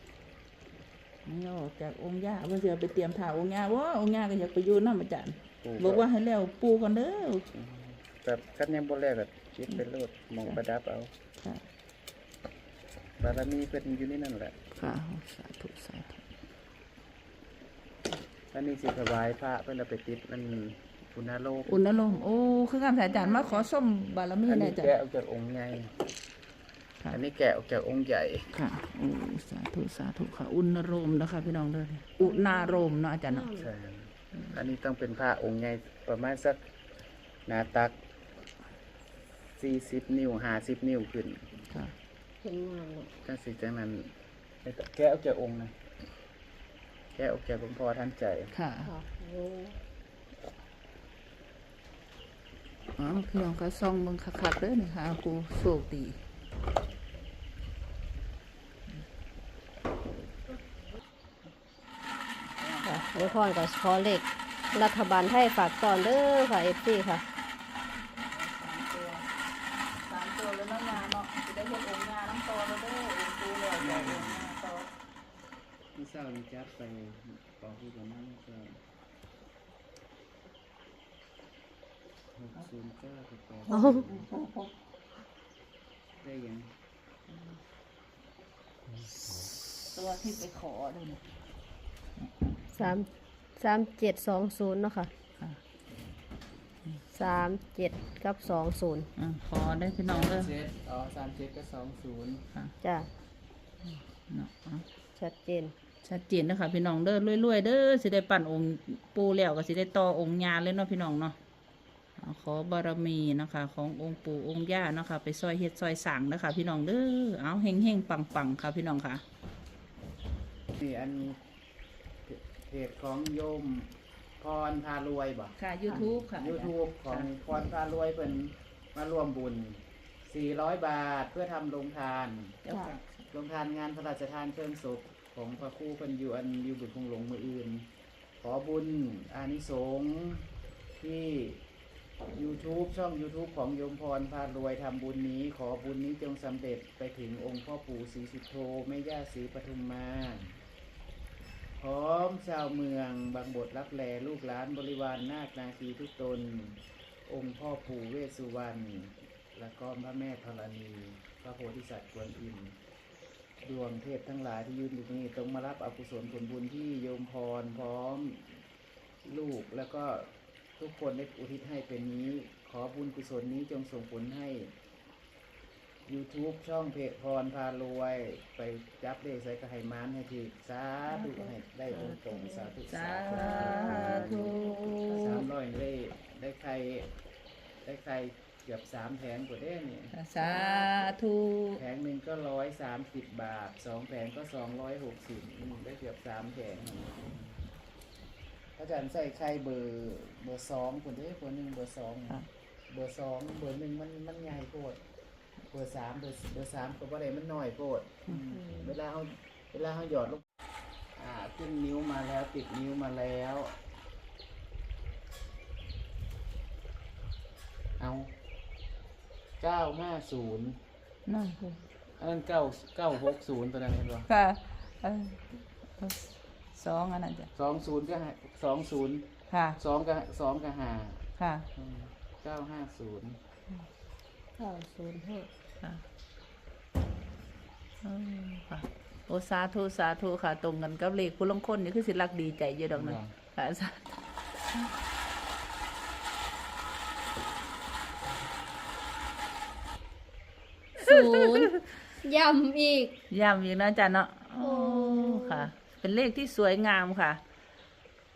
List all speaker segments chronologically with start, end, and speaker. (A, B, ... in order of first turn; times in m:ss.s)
0:01.2-0:07.5 A
0:05.6-0:06.1 B
0:07.5-0:11.1 B
0:13.2-0:14.6 B
0:14.8-0:16.2 A
0:18.5-0:21.8 B
0:21.7-0:24.9 A
0:23.1-0:23.7 C
0:24.4-0:25.9 B
0:27.1-0:28.5 B
0:28.5-0:33.5 A
0:32.2-0:33.7 C
0:33.5-0:36.6 B
0:37.5-0:38.0 B
0:39.6-0:41.4 B
0:42.4-0:43.1 C
0:43.2-0:44.1 B
0:44.6-0:45.7 B
0:47.2-0:48.5 B
0:48.5-0:48.9 A
0:48.8-0:49.8 C
0:53.0-0:56.2 A
1:02.4-1:03.4 A
1:02.8-1:07.2 C
1:08.2-1:09.3 A
1:10.0-1:14.9 A
1:13.8-1:14.5 B
1:16.0-1:18.8 B
1:22.4-1:24.3 B
1:23.7-1:24.7 A
1:23.7-1:24.0 C
1:26.2-1:26.7 B
1:29.9-1:31.2 A
1:32.2-1:33.0 A
1:32.7-1:35.1 C
1:37.1-1:39.1 C
1:39.2-1:40.5 A
1:40.1-1:42.4 B
1:42.8-1:43.1 C
1:43.8-1:44.8 A
1:45.2-1:45.7 C
1:46.0-1:51.4 A
1:52.2-1:59.2 A
2:00.8-2:01.4 B
2:02.3-2:12.6 B
2:05.6-2:07.3 A
2:12.6-2:13.3 A
2:13.3-2:17.9 B
2:18.4-2:21.6 B
2:22.3-2:30.6 B
2:31.8-2:42.8 B
2:43.6-2:48.6 B
2:49.2-2:54.7 B
2:56.1-3:04.6 B
3:01.1-3:05.5 A
3:03.5-3:04.1 C
3:05.1-3:07.1 B
3:07.8-3:10.7 B
3:10.1-3:11.8 A
3:11.8-3:17.6 B
3:18.8-3:25.0 B
3:25.7-3:30.4 B
3:28.6-3:28.9 C
3:31.2-3:33.8 B
3:38.0-3:38.3 B
3:39.6-3:40.8 B
3:41.3-3:41.6 A
3:42.2-3:44.3 B
3:44.3-3:47.5 A
3:47.6-3:53.4 B
3:49.5-3:49.8 A
3:51.4-3:51.7 A
3:54.6-3:55.5 C
3:58.0-4:04.2 A
4:02.9-4:03.3 B
4:11.0-4:13.2 C
4:11.2-4:11.6 A
4:13.3-4:17.4 A
4:14.6-4:15.7 C